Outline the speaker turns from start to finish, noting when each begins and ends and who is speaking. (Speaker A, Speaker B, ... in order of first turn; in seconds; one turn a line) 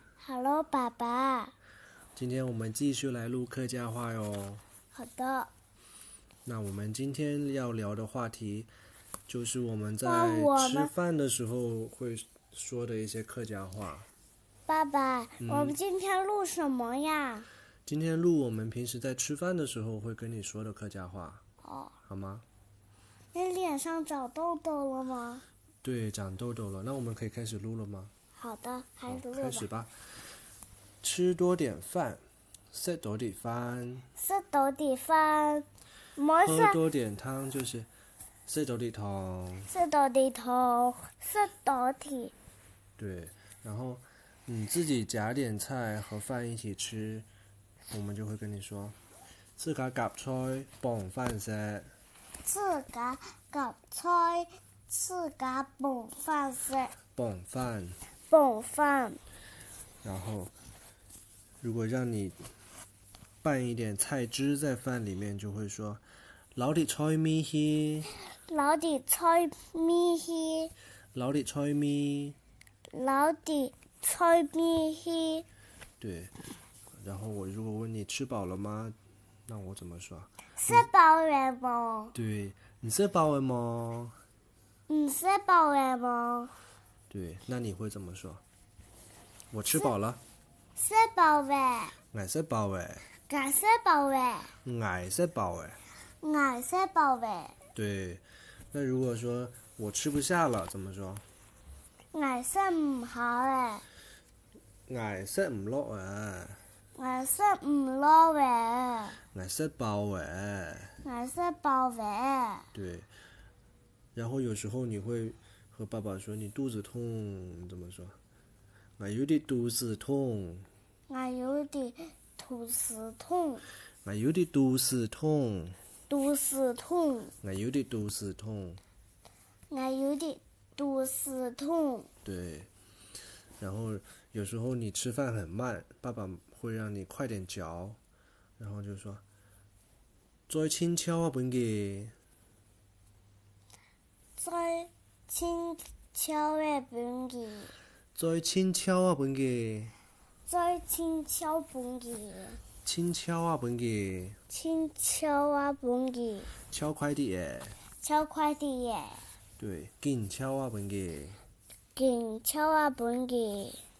Speaker A: 0.2-1.5
Speaker B: 2.1-4.6
Speaker A: 4.9-5.5
Speaker B: 6.5-8.7
Speaker B: 9.3-14.1
Speaker A: 10.0-10.9
Speaker A: 14.7-17.5
Speaker B: 15.4-15.8
Speaker B: 17.9-21.4
Speaker A: 21.6-21.9
Speaker B: 22.1-22.4
Speaker A: 23.3-25.4
Speaker B: 25.8-28.1
Speaker A: 28.4-29.7
Speaker B: 29.1-29.9
Speaker B: 31.0-32.2
Speaker B: 32.7-34.1
Speaker A: 34.2-36.8
Speaker B: 36.4-37.9
Speaker B: 38.5-39.7
Speaker A: 39.7-42.3
Speaker B: 43.0-47.3
Speaker B: 47.9-49.0
Speaker B: 49.6-51.9
Speaker A: 52.4-57.0
Speaker B: 57.1-58.0
Speaker A: 58.3-59.2
Speaker B: 60.0-60.5
Speaker B: 61.6-62.5
Speaker B: 63.4-66.0
Speaker B: 66.6-68.1
Speaker A: 68.5-70.7
Speaker B: 71.1-72.4
Speaker A: 72.9-75.5
Speaker B: 76.0-76.3
Speaker B: 77.0-79.0
Speaker B: 79.5-80.9
Speaker A: 80.6-82.1
Speaker B: 82.1-84.2
Speaker A: 84.9-86.5
Speaker B: 87.1-88.4
Speaker B: 89.5-90.2
Speaker A: 90.8-92.0
Speaker B: 92.1-93.1
Speaker A: 93.3-94.5
Speaker B: 94.6-95.8
Speaker A: 96.2-97.6
Speaker B: 97.7-101.2
Speaker A: 102.1-103.8
Speaker B: 104.9-106.6
Speaker A: 107.0-109.2
Speaker B: 109.3-111.0
Speaker A: 111.0-112.7
Speaker B: 112.7-113.1
Speaker B: 114.2-118.2
Speaker B: 119.0-120.7
Speaker A: 121.1-123.6
Speaker B: 124.0-125.8
Speaker A: 126.1-127.3
Speaker B: 127.4-128.8
Speaker A: 129.7-132.1
Speaker B: 132.2-132.7
Speaker B: 133.6-138.0
Speaker B: 138.6-139.2
Speaker B: 140.5-142.1
Speaker A: 144.4-147.7
Speaker B: 148.1-149.9
Speaker A: 150.5-152.6
Speaker B: 152.8-154.4
Speaker A: 154.5-156.5
Speaker B: 156.7-157.8
Speaker A: 158.0-159.2
Speaker B: 159.6-161.4
Speaker A: 161.9-163.8